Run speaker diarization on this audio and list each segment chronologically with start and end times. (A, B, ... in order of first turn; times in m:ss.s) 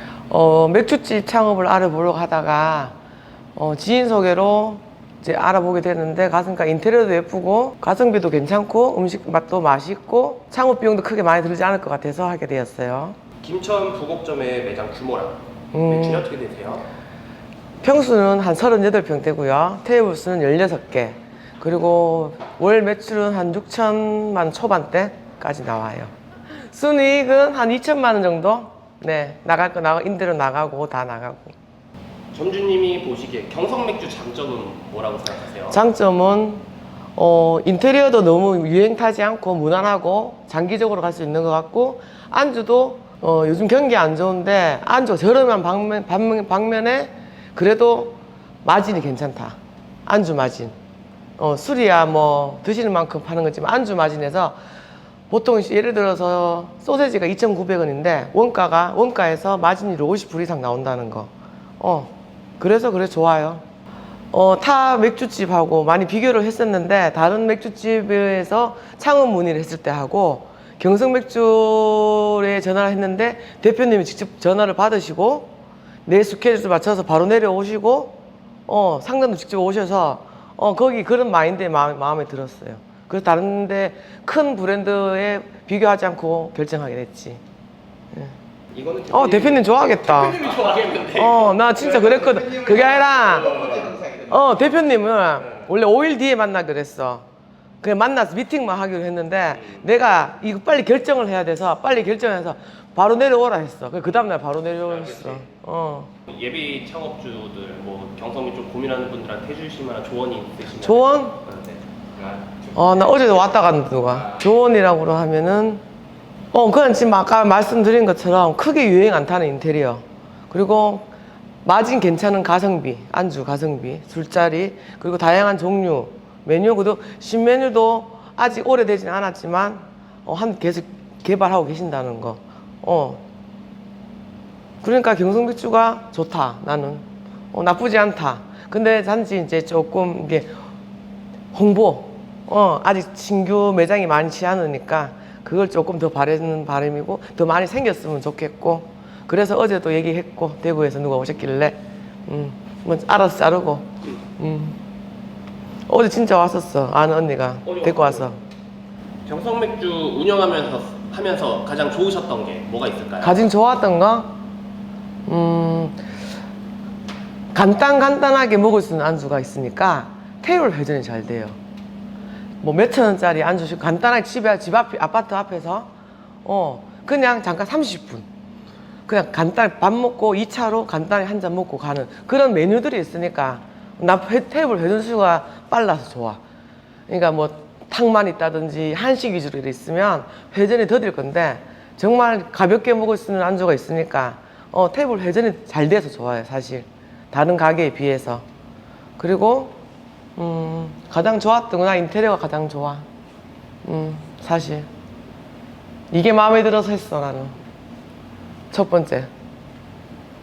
0:00.3-0:03.0 A
0:03.6-0:13.2 A
0:13.4-0:16.9 B
0:15.7-0:16.3 A
0:17.8-0:31.6 A
0:32.3-0:35.8 B
0:35.7-0:36.6 A
0:37.2-0:50.8 A
0:51.4-0:54.6 A
0:55.3-1:03.6 A
1:04.3-1:15.6 A
1:16.1-1:27.4 A
1:28.7-1:31.6 B
1:29.1-1:30.4 A
1:31.1-1:37.3 A
1:33.6-1:34.0 B
1:37.8-1:46.1 A
1:44.8-1:45.4 B
1:46.3-1:52.8 B
1:50.8-1:51.4 A
1:52.8-1:55.8 A
1:56.5-2:01.1 A
2:01.6-2:13.2 A
2:14.8-2:20.5 A
2:21.5-2:34.8 A
2:35.9-2:38.4 A
2:37.6-2:38.3 B
2:39.3-2:43.5 B
2:43.2-2:44.4 A
2:45.3-2:46.0 A
2:47.5-2:51.6 A
2:52.6-2:55.9 A
2:56.4-2:58.3 A
2:59.1-3:06.4 A
3:07.1-3:18.4 A
3:19.2-3:19.8 A
3:20.4-3:23.1 A
3:23.8-3:24.9 A
3:26.1-3:27.6 A
3:28.7-3:29.3 A